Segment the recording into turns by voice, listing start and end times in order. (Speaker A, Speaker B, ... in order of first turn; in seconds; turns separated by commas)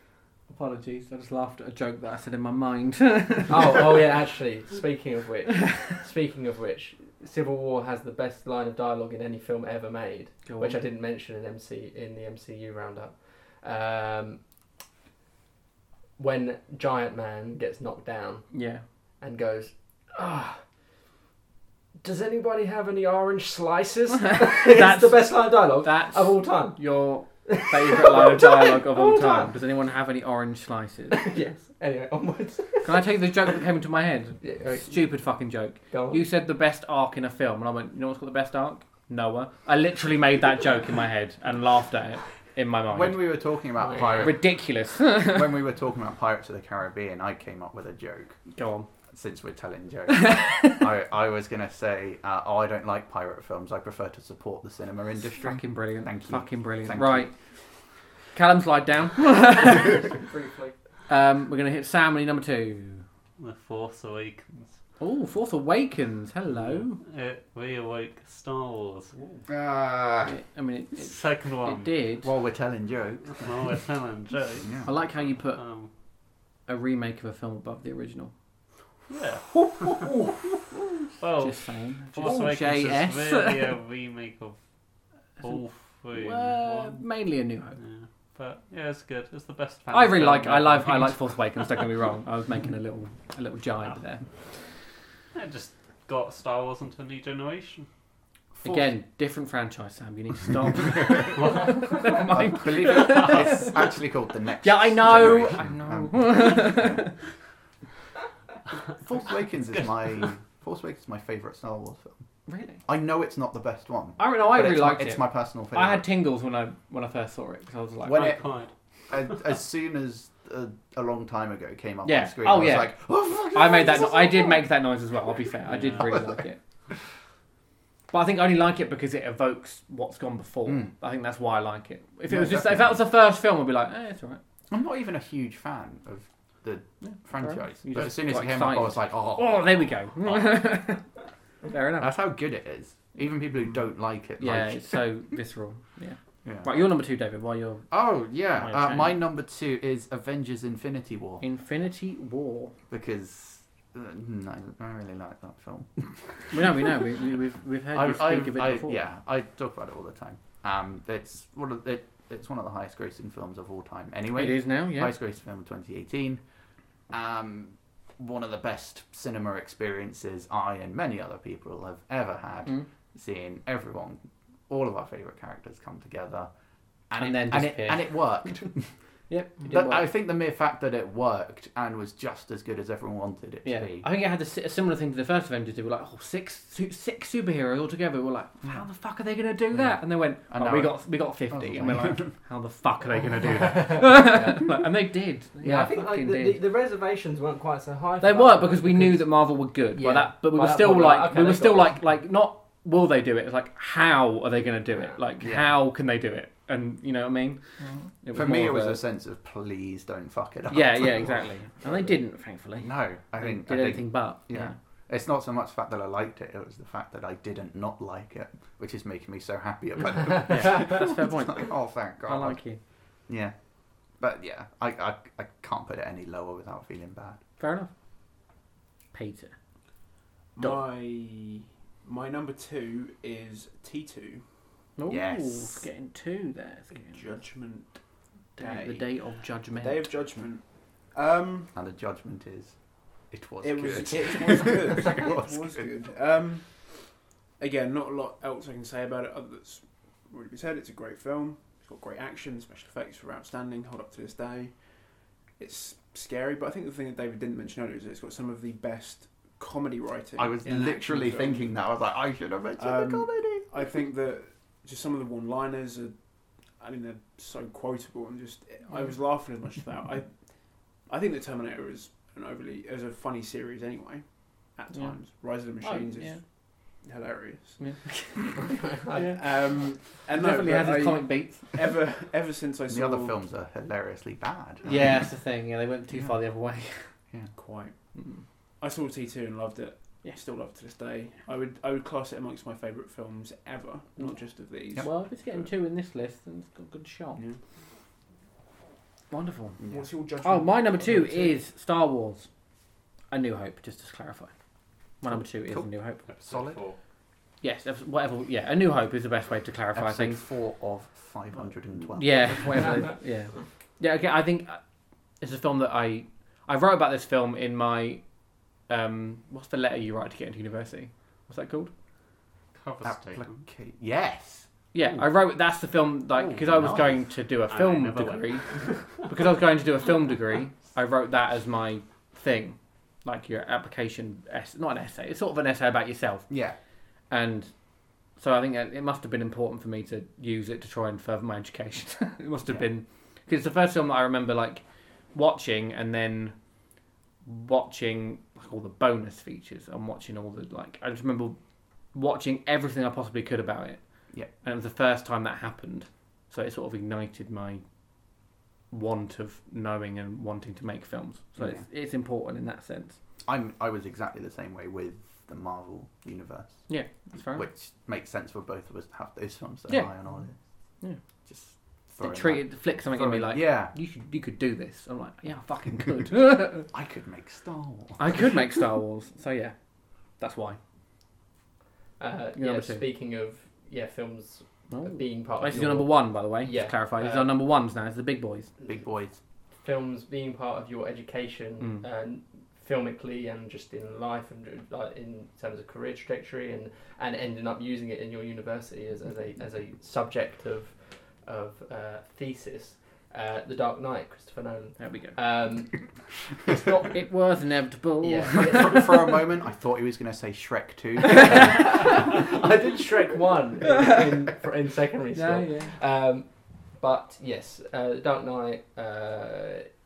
Speaker A: 0.5-4.0, Speaker B: 3.5-14.4, Speaker A: 10.4-10.8, Speaker B: 16.2-18.6, Speaker A: 18.5-18.8, Speaker B: 19.2-20.6, Speaker B: 22.0-29.5, Speaker A: 24.3-31.2, Speaker B: 31.1-33.0, Speaker A: 32.8-43.3, Speaker B: 34.4-35.0, Speaker B: 35.9-36.2, Speaker C: 42.9-48.4, Speaker B: 43.8-44.4, Speaker A: 44.2-45.5, Speaker A: 48.5-48.9, Speaker C: 49.1-57.3, Speaker A: 50.1-50.8, Speaker A: 55.4-57.3, Speaker A: 58.3-60.1, Speaker B: 60.1-60.7, Speaker A: 61.1-63.0, Speaker D: 63.4-64.8, Speaker A: 65.0-67.0, Speaker D: 66.5-69.1, Speaker C: 69.5-70.4, Speaker A: 70.2-72.3, Speaker D: 71.0-71.9, Speaker C: 72.2-73.5, Speaker D: 73.4-75.9, Speaker C: 74.6-74.9, Speaker A: 74.8-75.6, Speaker A: 76.6-78.3, Speaker D: 79.1-80.1, Speaker A: 79.9-80.3, Speaker D: 81.2-84.6, Speaker A: 81.4-83.8, Speaker D: 85.4-87.0, Speaker A: 86.1-87.8, Speaker D: 87.8-91.7, Speaker A: 89.9-94.2, Speaker D: 95.3-97.8, Speaker C: 98.5-98.9, Speaker A: 98.6-103.9, Speaker C: 102.2-107.0, Speaker A: 104.6-107.1, Speaker C: 109.0-112.2, Speaker A: 112.5-112.8, Speaker C: 112.8-116.0, Speaker A: 114.2-118.4, Speaker C: 118.0-118.4, Speaker D: 118.1-118.7, Speaker C: 119.1-124.6, Speaker A: 122.0-126.6, Speaker D: 125.7-126.1, Speaker C: 125.8-126.5, Speaker A: 128.1-134.4, Speaker C: 130.7-130.9, Speaker C: 132.3-133.0, Speaker C: 134.7-140.6, Speaker A: 137.0-141.1, Speaker A: 141.6-142.1, Speaker C: 142.0-145.0, Speaker A: 144.4-148.0, Speaker C: 146.4-146.9, Speaker C: 147.9-151.4, Speaker A: 148.6-149.2, Speaker A: 151.4-152.8, Speaker C: 152.9-156.9, Speaker A: 156.5-159.0, Speaker C: 157.9-166.4, Speaker A: 164.3-165.1, Speaker C: 167.1-176.5, Speaker C: 177.1-178.9, Speaker A: 177.2-178.7, Speaker A: 179.3-180.1, Speaker C: 179.7-184.1, Speaker A: 183.6-196.6, Speaker C: 189.7-192.3, Speaker B: 193.7-194.7, Speaker B: 195.6-202.0, Speaker A: 198.2-209.0, Speaker C: 205.4-205.7, Speaker C: 208.3-212.2, Speaker A: 210.7-214.8, Speaker C: 212.8-222.6, Speaker A: 220.5-222.8, Speaker C: 223.3-227.4, Speaker A: 227.6-227.9, Speaker A: 229.1-229.5, Speaker E: 230.5-234.5, Speaker A: 230.6-230.8, Speaker A: 235.0-237.4, Speaker C: 235.1-235.8, Speaker E: 236.9-241.7, Speaker A: 238.6-240.1, Speaker C: 241.7-245.9, Speaker E: 243.6-261.8, Speaker C: 260.4-263.9, Speaker E: 262.8-278.4, Speaker A: 274.9-276.4, Speaker A: 277.8-278.6, Speaker B: 278.6-279.4, Speaker A: 279.1-279.4, Speaker E: 279.1-283.4, Speaker A: 280.1-281.9, Speaker C: 282.9-285.0, Speaker A: 284.8-287.1, Speaker E: 287.5-287.9, Speaker A: 288.1-288.4, Speaker E: 288.8-295.7, Speaker A: 295.0-297.4, Speaker A: 299.3-299.8, Speaker C: 299.8-300.1, Speaker E: 299.9-301.6, Speaker A: 300.4-302.5, Speaker A: 303.3-304.5, Speaker A: 305.2-306.2, Speaker C: 305.7-306.8, Speaker D: 306.3-307.0, Speaker A: 307.6-310.4, Speaker C: 309.9-313.0, Speaker A: 312.2-314.8, Speaker A: 315.4-321.9, Speaker D: 322.7-323.6, Speaker C: 323.0-324.7, Speaker A: 324.9-336.5, Speaker C: 326.4-327.2, Speaker D: 327.7-329.1, Speaker C: 336.5-336.8, Speaker A: 337.3-344.8, Speaker A: 345.3-346.6, Speaker A: 347.4-351.6, Speaker A: 352.1-357.8, Speaker A: 358.9-363.2, Speaker C: 361.6-361.8, Speaker C: 363.4-370.6, Speaker A: 366.9-367.7, Speaker C: 371.4-373.9, Speaker A: 372.2-376.9, Speaker C: 376.9-378.8, Speaker A: 378.2-379.7, Speaker A: 380.4-380.8, Speaker B: 382.2-387.5, Speaker A: 382.6-383.0, Speaker A: 384.9-388.7, Speaker C: 388.9-389.4, Speaker B: 389.8-407.1, Speaker A: 405.0-405.4, Speaker A: 407.1-409.1, Speaker B: 408.2-409.4, Speaker C: 408.5-412.4, Speaker B: 411.4-419.9, Speaker A: 411.5-411.8, Speaker A: 415.3-415.9